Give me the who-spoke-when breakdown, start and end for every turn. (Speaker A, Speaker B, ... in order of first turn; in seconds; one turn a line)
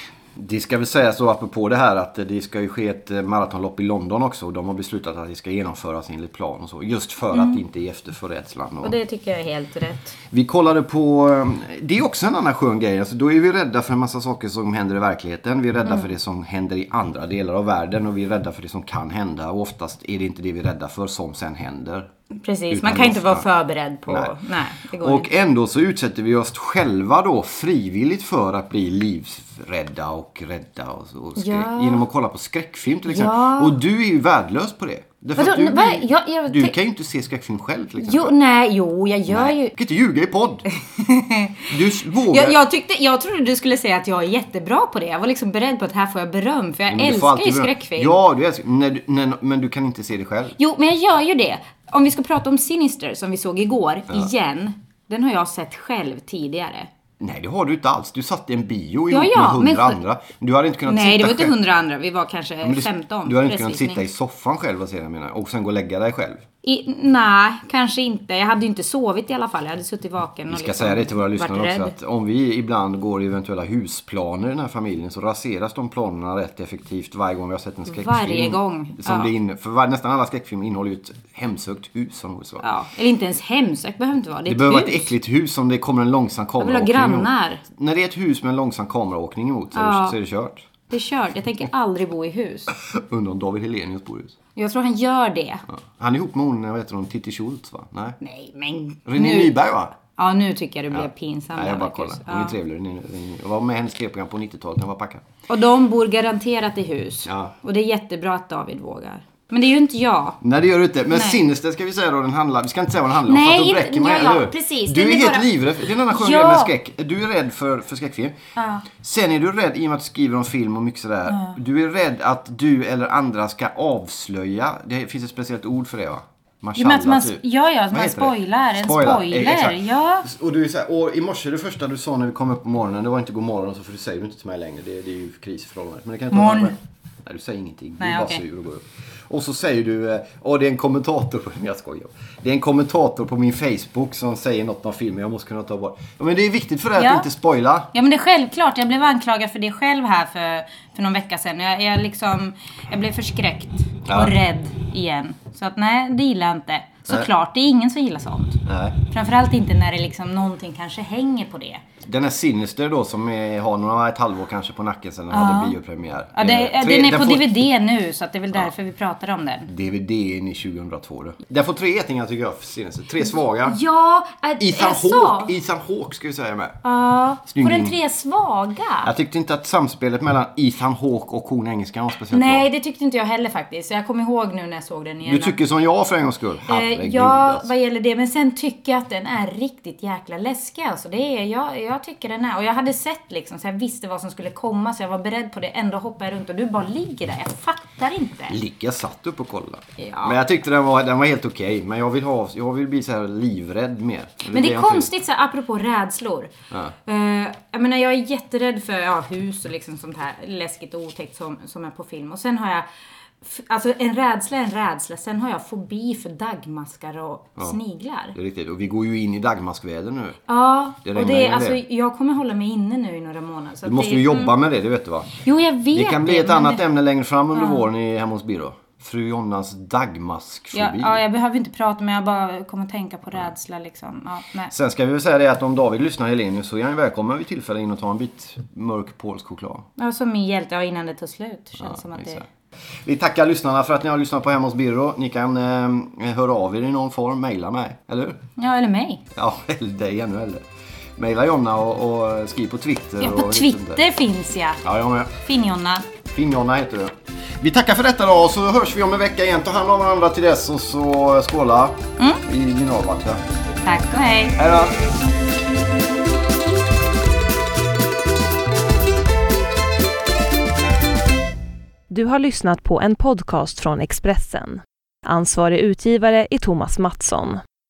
Speaker A: 0.3-8.9
Speaker B: 7.3-7.6
Speaker B: 8.8-10.2
Speaker A: 10.3-22.1
Speaker B: 22.4-25.3
Speaker A: 22.7-23.5
Speaker A: 24.1-24.3
Speaker A: 25.0-38.3
Speaker B: 31.4-32.0
Speaker B: 33.0-33.8
Speaker B: 35.3-36.8
Speaker B: 38.0-39.7
Speaker A: 39.3-40.6
Speaker B: 40.8-41.7
Speaker A: 41.7-42.6
Speaker B: 42.2-48.2
Speaker A: 46.9-50.5
Speaker B: 50.6-56.9
Speaker A: 57.2-61.5
Speaker B: 59.1-60.0
Speaker B: 60.9-64.0
Speaker A: 62.6-66.4
Speaker B: 66.6-71.9
Speaker A: 70.5-82.7
Speaker B: 77.9-79.3
Speaker B: 82.6-85.1
Speaker A: 84.5-90.7
Speaker B: 86.6-87.6
Speaker B: 89.7-90.2
Speaker B: 90.9-92.7
Speaker A: 92.7-94.3
Speaker B: 94.5-95.6
Speaker A: 95.7-98.2
Speaker B: 98.2-102.6
Speaker A: 99.0-100.0
Speaker A: 100.9-105.2
Speaker B: 105.5-110.4
Speaker A: 107.2-107.5
Speaker A: 110.4-118.3
Speaker B: 111.1-111.4
Speaker B: 113.2-116.7
Speaker B: 118.5-118.8
Speaker A: 119.0-127.4
Speaker B: 121.3-121.6
Speaker B: 126.8-130.3
Speaker A: 127.9-147.9
Speaker B: 136.3-136.7
Speaker B: 138.0-138.4
Speaker B: 146.9-147.3
Speaker B: 147.9-161.8
Speaker A: 154.1-154.3
Speaker A: 158.6-159.0
Speaker A: 162.0-167.7
Speaker B: 165.3-165.8
Speaker B: 166.3-169.7
Speaker A: 169.7-173.8
Speaker B: 173.2-175.6
Speaker A: 174.6-176.8
Speaker B: 176.8-179.1
Speaker A: 177.5-178.0
Speaker A: 179.0-182.7
Speaker B: 182.3-185.6
Speaker A: 185.2-187.7
Speaker B: 186.7-198.6
Speaker A: 198.5-205.1
Speaker B: 200.0-200.4
Speaker B: 204.5-206.5
Speaker B: 207.0-212.8
Speaker B: 213.4-218.3
Speaker A: 218.3-220.4
Speaker B: 220.5-224.5
Speaker A: 221.0-221.8
Speaker A: 223.8-225.3
Speaker B: 225.4-226.8
Speaker A: 225.9-231.2
Speaker B: 227.5-227.8
Speaker B: 230.7-234.7
Speaker A: 234.7-239.8
Speaker B: 240.0-242.4
Speaker A: 241.8-242.4
Speaker A: 243.0-248.4
Speaker B: 248.6-249.2
Speaker A: 249.3-250.6
Speaker A: 251.2-254.0
Speaker B: 253.2-256.1
Speaker A: 254.8-255.3
Speaker A: 256.3-263.4
Speaker B: 263.8-264.6
Speaker A: 264.6-264.9
Speaker C: 272.1-277.6